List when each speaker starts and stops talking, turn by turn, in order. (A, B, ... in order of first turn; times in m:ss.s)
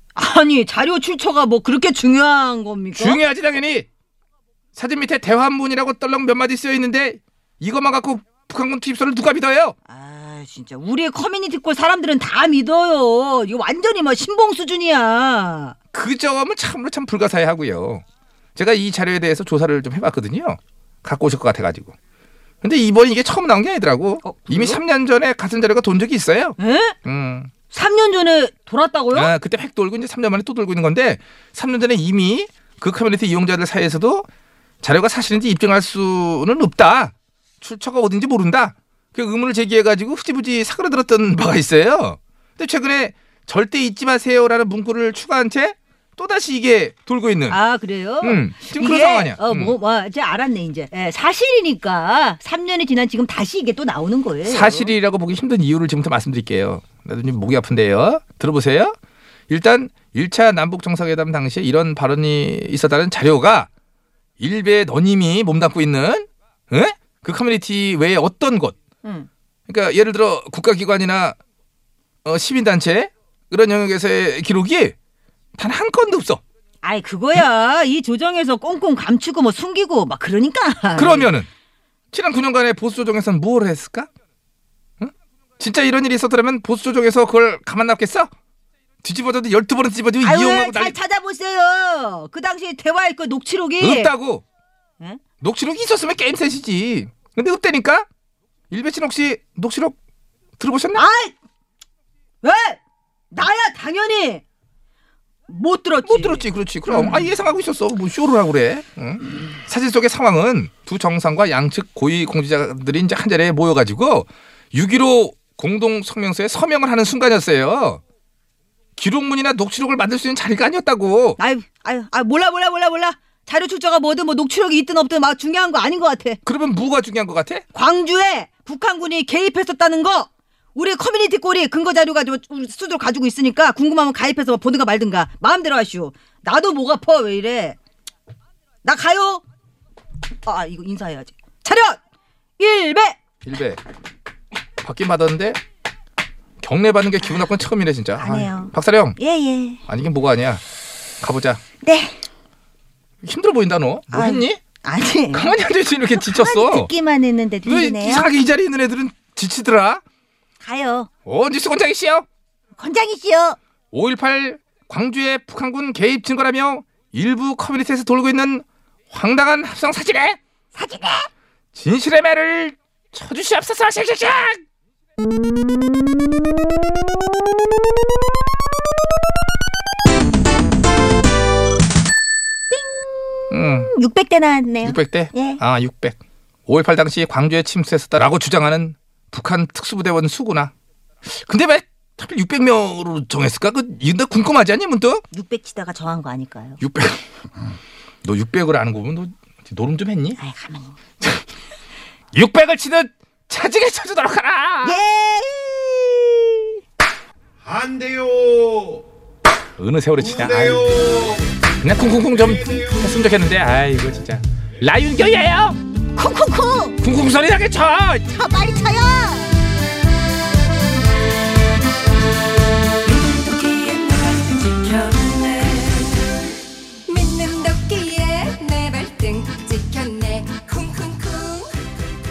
0:00.1-0:03.2 A
0:02.9-0:03.9 B
0:04.7-0:09.8 B
0:09.9-0:15.7 A
0:15.9-0:18.0 B
0:18.6-0:21.9 B
0:22.6-0:27.5 B
0:24.2-0:24.8 A
0:26.6-0:27.0 A
0:27.7-0:29.3 A
0:29.1-0:34.2 B
0:34.8-0:47.6 B
0:47.5-0:54.9 A
0:48.2-0:49.8 B
0:54.4-0:58.9 B
0:59.5-1:03.7 B
1:04.4-1:08.8 B
1:09.7-1:11.4 B
1:12.2-1:14.9 B
1:15.6-1:16.4 B
1:16.8-1:21.3 A
1:20.9-1:21.5 B
1:22.1-1:24.1 B
1:25.0-1:28.3 B
1:29.0-1:30.9 B
1:30.2-1:34.1 A
1:33.8-1:34.4 B
1:35.4-1:38.0 B
1:38.7-1:40.0 B
1:40.6-1:41.0 B
1:40.9-1:41.3 A
1:42.4-1:42.8 A
1:43.3-1:44.4 A
1:45.5-1:46.4 A
1:46.0-1:58.0 B
1:59.0-2:01.4 B
2:01.4-2:06.4 A
2:06.4-2:07.6 B
2:07.7-2:17.8 A
2:18.8-2:19.4 A
2:20.4-2:22.0 A
2:22.6-2:23.2 A
2:23.4-2:23.8 B
2:24.8-2:25.6 B
2:26.6-2:29.2 B
2:28.2-2:28.7 C
2:29.2-2:29.8 C
2:29.9-2:30.6 B
2:31.2-2:31.6 B
2:33.2-2:34.6 B
2:34.9-2:35.5 C
2:35.3-2:36.9 B
2:36.2-2:38.3 C
2:37.6-2:40.0 B
2:40.6-2:41.1 C
2:41.2-2:42.2 B
2:42.8-2:43.6 C
2:43.9-2:50.4 B
2:50.8-2:51.2 A
2:51.7-2:54.6 B
3:03.5-3:03.9 B
3:03.8-3:05.6 C
3:04.8-3:06.2 B
3:06.7-3:10.7 B
3:11.3-3:15.2 B
3:15.3-3:16.8 C
3:15.7-3:16.1 A
3:16.8-3:17.2 B
3:18.2-3:20.4 B
3:20.5-3:20.9 C
3:22.3-3:25.0 B
3:24.8-3:26.3 C
3:29.8-3:35.8 B
3:36.2-3:36.9 C
3:37.0-3:38.3 B
3:38.4-3:39.5 C
3:43.1-3:46.1 A
3:47.1-3:51.8 A